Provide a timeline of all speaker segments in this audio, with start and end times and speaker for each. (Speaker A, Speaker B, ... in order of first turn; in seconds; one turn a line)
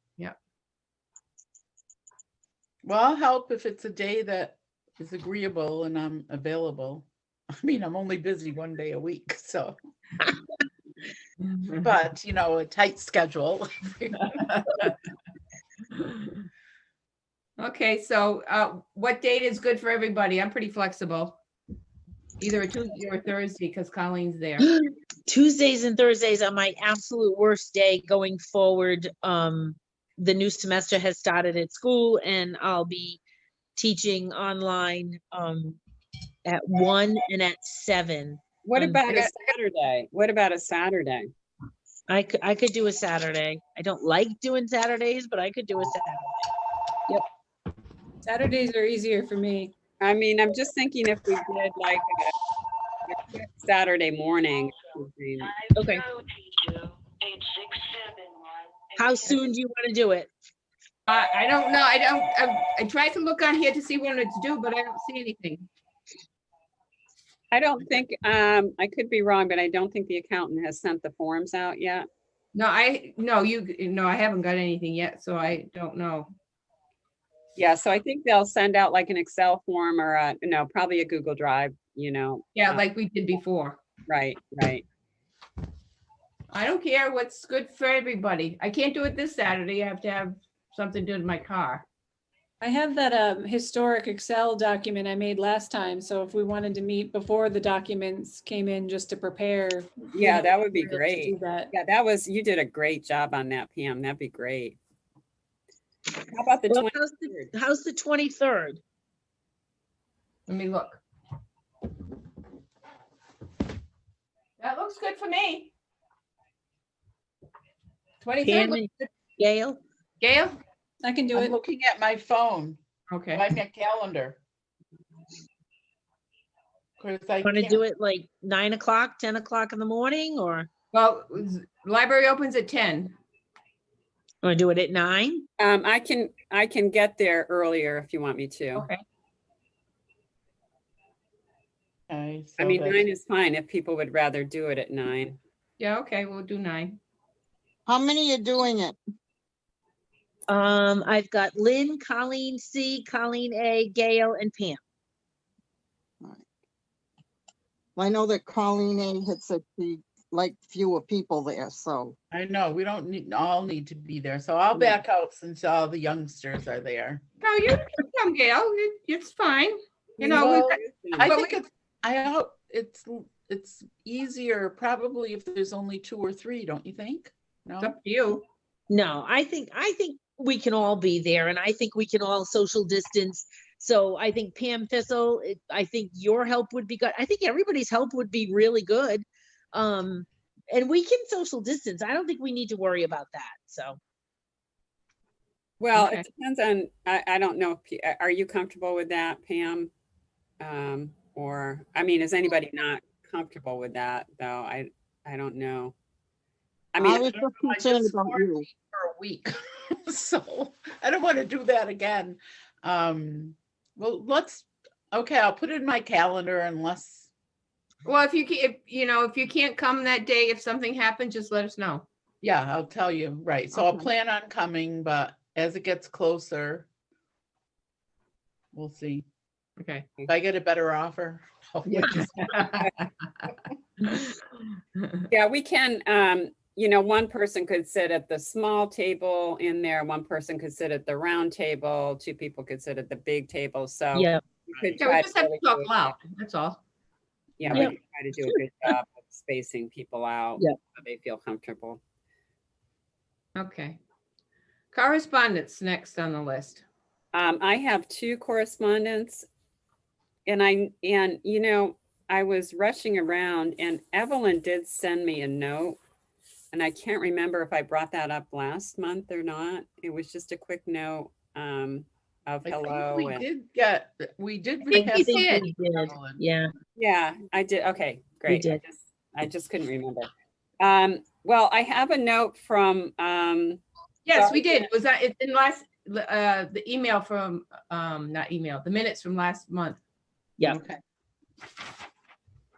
Speaker A: 2.8-7.1
Speaker A: 7.6-9.8
Speaker B: 11.4-11.9
Speaker A: 11.8-14.9
Speaker B: 17.6-21.4
Speaker B: 22.4-24.6
Speaker C: 24.6-33.2
Speaker C: 33.8-35.8
Speaker C: 36.5-39.3
Speaker D: 38.6-41.3
Speaker C: 42.1-46.4
Speaker E: 48.2-49.7
Speaker D: 50.0-52.1
Speaker D: 53.1-55.6
Speaker C: 55.8-56.0
Speaker C: 59.0-60.3
Speaker B: 61.1-65.7
Speaker D: 67.5-72.0
Speaker B: 72.5-76.3
Speaker D: 77.5-82.8
Speaker B: 82.5-83.8
Speaker D: 84.1-84.8
Speaker B: 86.5-91.8
Speaker E: 92.6-101.7
Speaker D: 100.1-104.8
Speaker D: 106.3-107.5
Speaker C: 106.7-108.8
Speaker B: 110.5-111.0
Speaker B: 114.6-115.7
Speaker B: 118.2-119.1
Speaker C: 118.4-119.8
Speaker B: 120.2-120.6
Speaker E: 121.0-121.6
Speaker A: 121.3-122.8
Speaker B: 123.1-123.5
Speaker A: 123.3-124.4
Speaker A: 127.0-127.8
Speaker C: 127.4-130.7
Speaker B: 130.9-133.2
Speaker C: 134.4-135.4
Speaker D: 135.6-138.9
Speaker B: 138.8-139.0
Speaker A: 142.1-143.1
Speaker D: 142.6-145.4
Speaker B: 145.8-147.0
Speaker F: 147.8-148.9
Speaker C: 150.5-154.8
Speaker F: 157.9-162.1
Speaker A: 162.3-167.2
Speaker B: 167.4-171.6
Speaker A: 170.2-177.9
Speaker D: 170.2-171.3
Speaker B: 177.8-178.4
Speaker C: 178.9-194.0
Speaker D: 195.8-199.9
Speaker B: 195.9-196.2
Speaker D: 200.6-205.9
Speaker D: 206.9-207.3
Speaker F: 207.0-208.7
Speaker A: 207.2-217.3
Speaker B: 218.0-222.1
Speaker A: 222.4-226.9
Speaker A: 228.7-229.2
Speaker B: 229.8-230.1
Speaker A: 230.3-232.6
Speaker B: 231.8-233.5
Speaker B: 234.9-235.2
Speaker D: 235.3-246.1
Speaker C: 244.1-244.4
Speaker B: 245.0-246.8
Speaker D: 247.6-252.0
Speaker C: 247.7-248.5
Speaker B: 253.5-254.0
Speaker B: 254.9-256.8
Speaker D: 257.3-259.5
Speaker D: 260.4-266.0
Speaker D: 266.7-273.4
Speaker A: 272.6-276.4
Speaker B: 274.9-275.7
Speaker C: 274.9-276.7
Speaker D: 276.9-280.3
Speaker C: 278.5-278.8
Speaker D: 280.8-283.8
Speaker B: 284.2-290.0
Speaker D: 284.3-284.9
Speaker A: 290.6-291.0